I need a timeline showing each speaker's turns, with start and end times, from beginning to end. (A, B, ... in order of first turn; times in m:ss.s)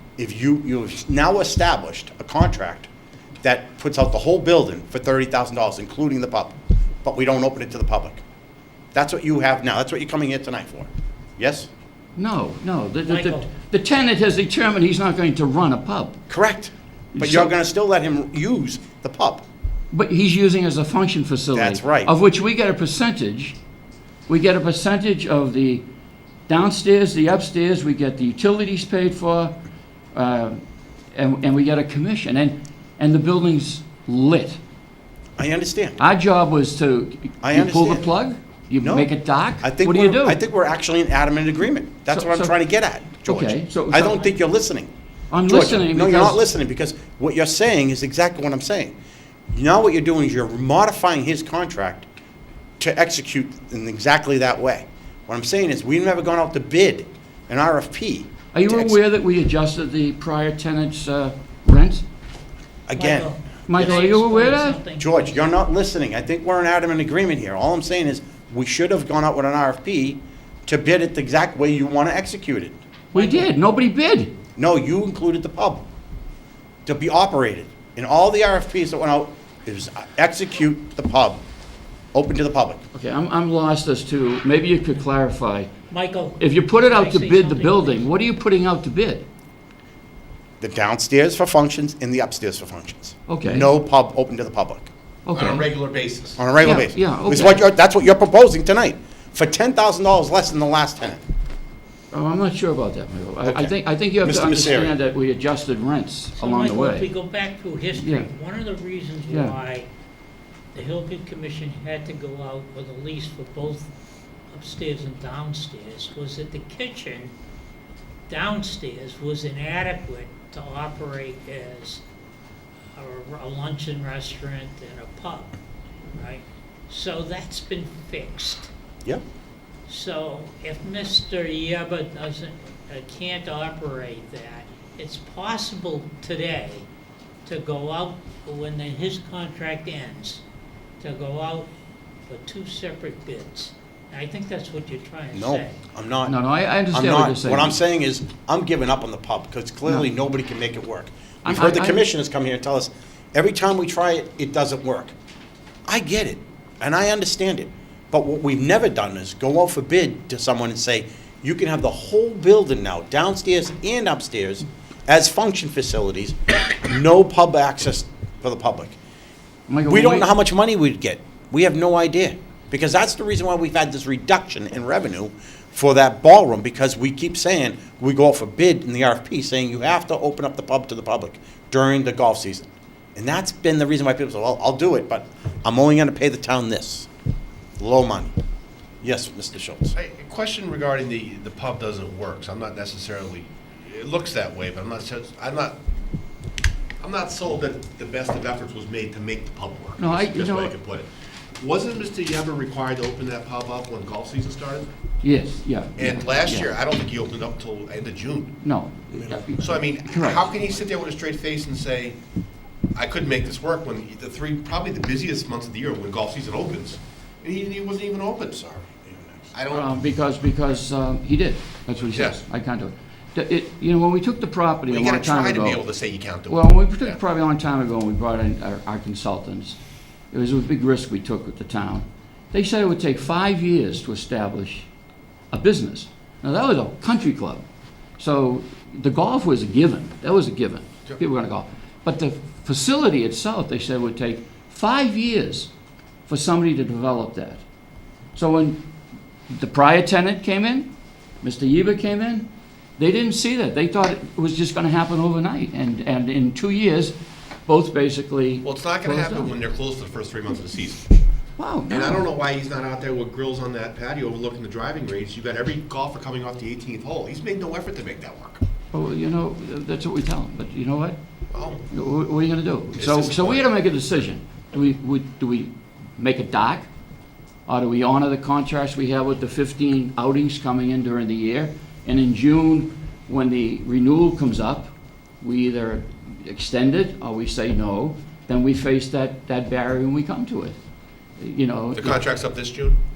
0:00.2-0:02.9 A
0:03.4-0:08.2 A
0:08.9-0:11.7 A
0:12.2-0:16.2 B
0:13.1-0:13.5 C
0:16.3-0:19.4 A
0:17.2-0:17.5 B
0:19.9-0:23.6 B
0:21.6-0:22.1 A
0:24.3-0:25.8 B
0:26.5-0:29.6 B
0:30.1-0:30.6 B
0:31.2-0:34.6 B
0:35.4-0:36.0 A
0:36.0-0:40.4 B
0:37.4-0:38.1 A
0:38.8-0:39.1 A
0:39.6-0:44.9 A
0:42.1-0:42.5 B
0:43.2-0:44.2 B
0:45.3-0:46.4 B
0:45.4-0:48.9 A
0:49.5-0:52.0 A
0:52.8-0:59.0 A
0:58.5-1:02.0 B
1:02.9-1:04.1 A
1:03.0-1:05.5 C
1:03.7-1:04.8 B
1:05.0-1:12.8 A
1:13.1-1:13.5 C
1:13.1-1:14.3 B
1:14.6-1:15.8 A
1:16.9-1:21.4 A
1:22.1-1:22.8 A
1:22.9-1:25.7 B
1:25.9-1:28.1 C
1:26.4-1:29.2 B
1:30.6-1:34.9 A
1:33.3-1:33.7 B
1:35.2-1:35.7 B
1:35.3-1:36.5 D
1:36.4-1:41.2 A
1:36.6-1:37.7 B
1:42.1-1:47.0 B
1:43.4-1:45.0 A
1:46.3-1:49.9 C
1:48.0-1:48.3 B
1:50.7-1:53.9 C
1:54.5-1:57.3 C
1:58.3-2:02.0 C
2:03.0-2:05.6 C
2:06.1-2:08.7 C
2:09.9-2:16.9 C
2:17.4-2:20.4 C
2:21.0-2:21.7 C
2:22.3-2:25.8 C
2:25.3-2:35.1 A
2:26.3-2:27.8 B
2:31.4-2:32.0 B
2:35.9-2:48.9 A
2:49.7-2:50.3 B
2:49.8-3:07.1 A
3:07.8-3:08.3 A
3:09.0-3:09.9 A
3:09.9-3:15.8 D
3:17.0-3:24.9 D
3:20.0-3:20.7 B
3:25.2-3:26.7 B
3:26.0-3:28.5 D
3:28.6-3:30.5 B
3:29.6-3:32.2 D
3:32.9-3:38.9 D
3:38.8-3:39.5 A
3:39.5-3:40.0 D
3:39.7-3:45.8 B
3:42.0-3:42.4 D
3:44.9-3:47.2 D
3:46.5-3:49.8 B
3:50.3-3:54.9 B
3:55.5-3:57.6 B
3:58.2-4:05.7 B
4:06.3-4:07.6 B
4:08.3-4:08.8 B
4:09.5-4:10.9 B
4:11.4-4:17.2 B
4:17.7-4:19.5 B
4:18.6-4:21.1 D
4:21.6-4:22.2 B
4:21.9-4:28.6 D
4:28.9-4:31.2 B
4:31.5-4:31.8 D
4:31.9-4:36.9 B
4:32.9-4:33.8 D
4:37.7-4:50.8 B
4:51.4-4:52.2 B
4:51.9-4:53.0 D